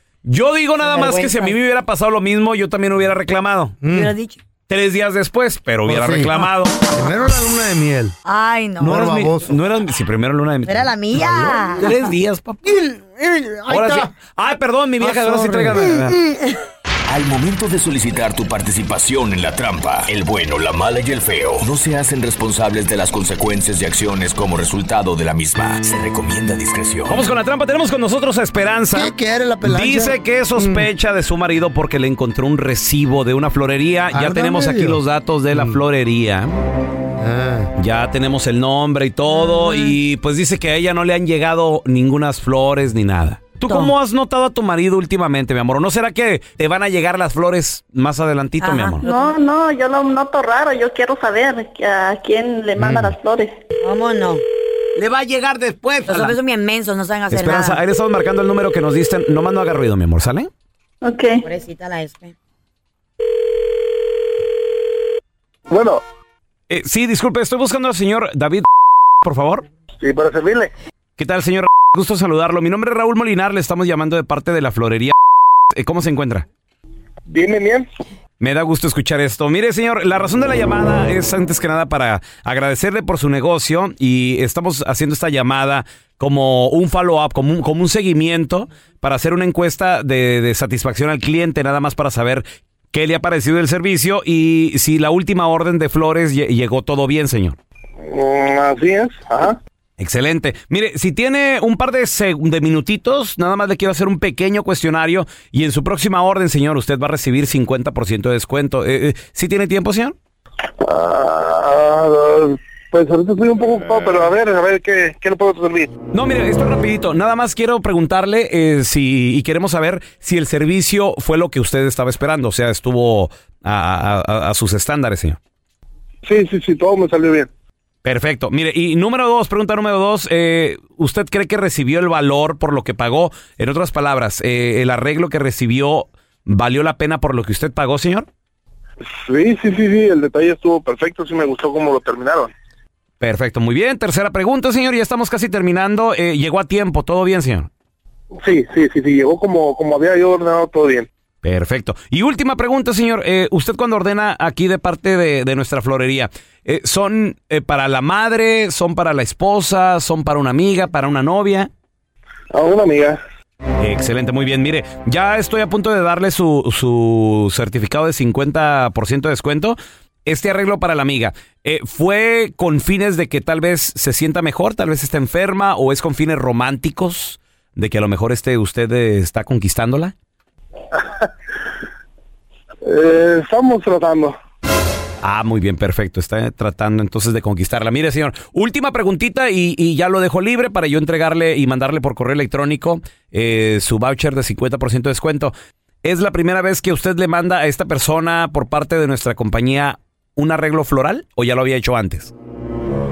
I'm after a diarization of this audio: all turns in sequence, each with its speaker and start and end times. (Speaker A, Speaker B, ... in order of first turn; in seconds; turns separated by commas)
Speaker A: 0.2-3.8, Speaker B: 0.8-1.6, Speaker C: 3.8-4.1, Speaker B: 3.9-4.4, Speaker A: 4.7-6.7, Speaker C: 5.9-8.2, Speaker B: 8.3-9.1, Speaker A: 8.8-12.6, Speaker C: 8.8-9.6, Speaker B: 10.7-11.9, Speaker C: 11.2-11.5, Speaker C: 12.6-14.1, Speaker A: 13.7-16.2, Speaker C: 15.0-15.9, Speaker B: 16.2-16.6, Speaker D: 17.1-27.3, Speaker A: 27.1-36.6, Speaker C: 28.9-30.9, Speaker C: 34.1-35.0, Speaker C: 35.5-35.8, Speaker C: 37.2-37.7, Speaker A: 37.8-49.1, Speaker B: 39.3-40.0, Speaker B: 48.6-49.0, Speaker E: 49.0-53.6, Speaker A: 52.8-53.1, Speaker B: 53.8-54.4, Speaker A: 55.0-56.4, Speaker B: 56.1-57.8, Speaker A: 57.3-60.5, Speaker E: 61.0-61.4, Speaker B: 61.4-62.4, Speaker F: 65.7-66.0, Speaker A: 66.7-68.7, Speaker A: 69.2-69.7, Speaker F: 70.0-70.7, Speaker A: 71.2-75.1, Speaker A: 75.7-76.5, Speaker F: 77.3-77.9, Speaker A: 78.4-97.6, Speaker F: 98.0-99.6, Speaker A: 100.0-110.2, Speaker F: 110.8-115.9, Speaker A: 116.1-125.4, Speaker F: 126.2-127.5, Speaker A: 128.0-138.3, Speaker F: 139.3-142.5, Speaker A: 143.2-147.7, Speaker F: 148.3-151.1, Speaker A: 151.4-161.7, Speaker F: 162.5-163.2, Speaker A: 163.8-180.1, Speaker F: 182.8-184.4, Speaker A: 185.2-195.5, Speaker A: 196.0-202.3